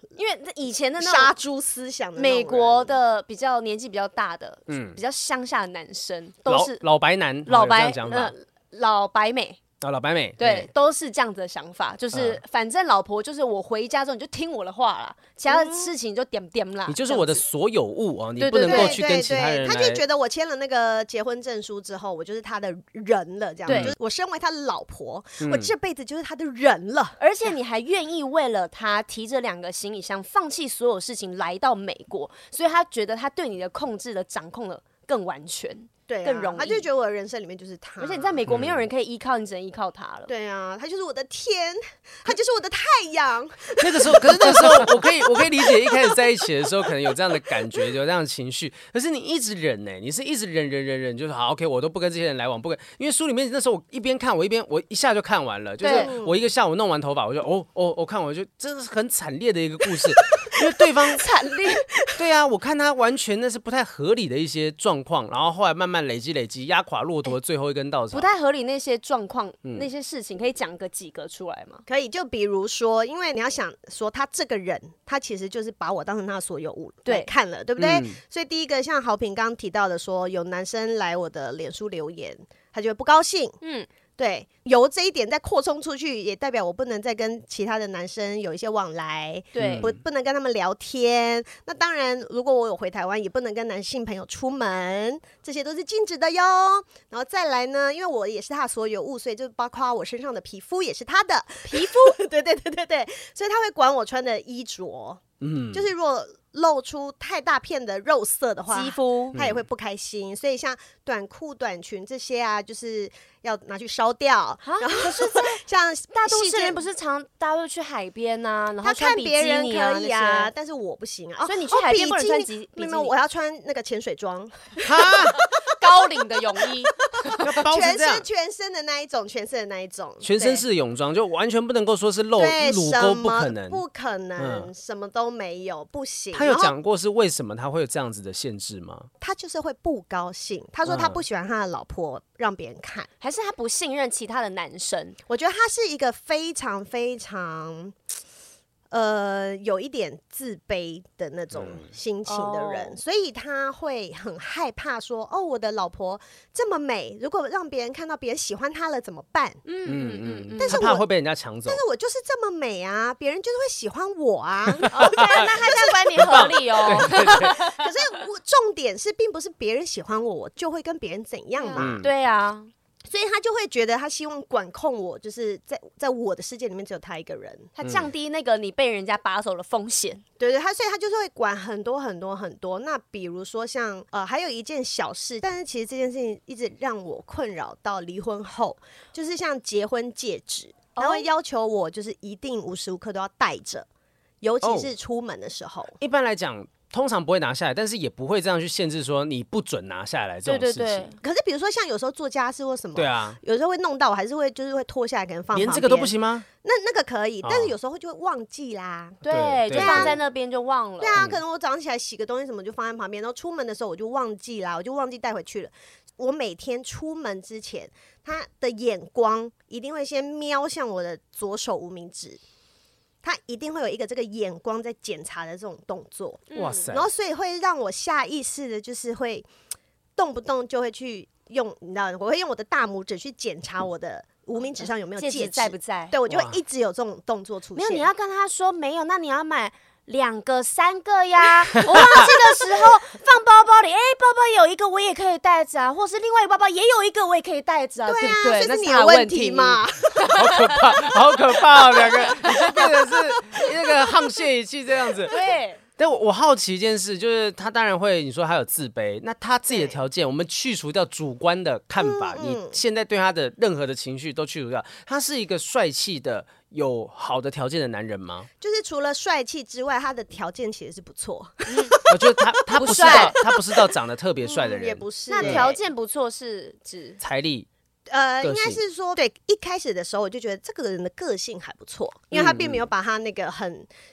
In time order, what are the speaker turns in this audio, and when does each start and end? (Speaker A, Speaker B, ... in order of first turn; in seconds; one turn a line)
Speaker A: 0.2-1.3
Speaker B: 1.0-3.0
Speaker A: 2.2-6.8
Speaker C: 4.7-5.0
Speaker C: 6.5-8.3
Speaker A: 7.5-9.6
Speaker C: 9.8-10.7
Speaker A: 10.4-17.4
Speaker C: 12.1-12.4
Speaker B: 15.5-15.9
Speaker C: 16.9-20.0
Speaker A: 18.4-19.0
Speaker B: 18.6-27.2
Speaker A: 23.7-23.9
Speaker C: 23.7-24.0
Speaker C: 25.4-25.7
Speaker A: 27.2-36.9
Speaker B: 36.1-38.4
Speaker A: 38.0-40.3
Speaker C: 38.5-38.9
Speaker B: 40.3-46.2
Speaker C: 43.8-61.2
Speaker A: 55.8-56.1
Speaker B: 55.8-56.4
Speaker A: 61.2-61.9
Speaker B: 61.7-62.2
Speaker C: 62.2-68.3
Speaker A: 68.1-71.8
Speaker B: 71.9-83.6
Speaker C: 77.8-78.2
Speaker A: 83.6-83.9
Speaker B: 84.2-116.8
Speaker A: 89.5-89.9
Speaker C: 89.6-90.0
Speaker A: 101.7-102.2
Speaker C: 105.4-105.9
Speaker A: 108.7-109.4
Speaker C: 109.3-109.6
Speaker A: 114.6-115.6
Speaker A: 116.2-120.5
Speaker B: 118.8-125.5
Speaker A: 121.4-123.1
Speaker C: 124.8-125.4
Speaker A: 125.6-127.4
Speaker B: 127.2-130.6
Speaker C: 127.4-128.2
Speaker C: 130.2-133.8
Speaker B: 132.4-136.7
Speaker C: 134.4-134.7
Speaker C: 136.3-139.1
Speaker B: 139.2-143.1
Speaker C: 140.9-141.2
Speaker A: 143.2-145.2
Speaker B: 145.3-147.9
Speaker B: 148.9-159.6
Speaker C: 151.5-151.9
Speaker A: 152.2-153.0
Speaker A: 159.7-160.8
Speaker C: 159.9-161.8
Speaker B: 160.6-161.1
Speaker B: 161.7-172.0
Speaker C: 164.8-167.6
Speaker A: 164.9-167.9
Speaker A: 171.6-172.7
Speaker C: 171.8-172.1
Speaker B: 173.1-177.7
Speaker A: 177.8-180.2
Speaker C: 177.8-178.1
Speaker B: 180.4-193.9
Speaker A: 191.0-191.2
Speaker B: 194.4-196.0
Speaker C: 194.6-194.9
Speaker C: 196.0-201.1
Speaker A: 200.5-201.2
Speaker B: 201.2-210.2
Speaker C: 202.9-203.4
Speaker C: 205.5-206.5
Speaker C: 207.4-207.7
Speaker A: 209.2-211.2
Speaker C: 209.3-210.2
Speaker B: 211.0-222.4
Speaker B: 223.2-229.5
Speaker A: 226.5-226.9
Speaker C: 226.6-227.1
Speaker B: 230.2-238.1
Speaker A: 235.2-236.2
Speaker C: 236.3-236.6
Speaker A: 237.8-251.0
Speaker C: 241.8-242.3
Speaker B: 248.1-250.3
Speaker C: 250.3-255.3
Speaker A: 252.0-252.9
Speaker B: 252.4-254.1
Speaker A: 255.3-255.8
Speaker C: 256.0-268.5
Speaker B: 259.7-260.0
Speaker B: 262.0-262.8
Speaker B: 268.6-273.9
Speaker A: 271.7-271.9
Speaker C: 272.1-275.7
Speaker A: 272.7-273.4
Speaker B: 274.4-275.8
Speaker A: 275.3-277.2
Speaker C: 277.2-277.7
Speaker B: 278.1-283.9
Speaker C: 278.4-278.8
Speaker C: 282.3-282.8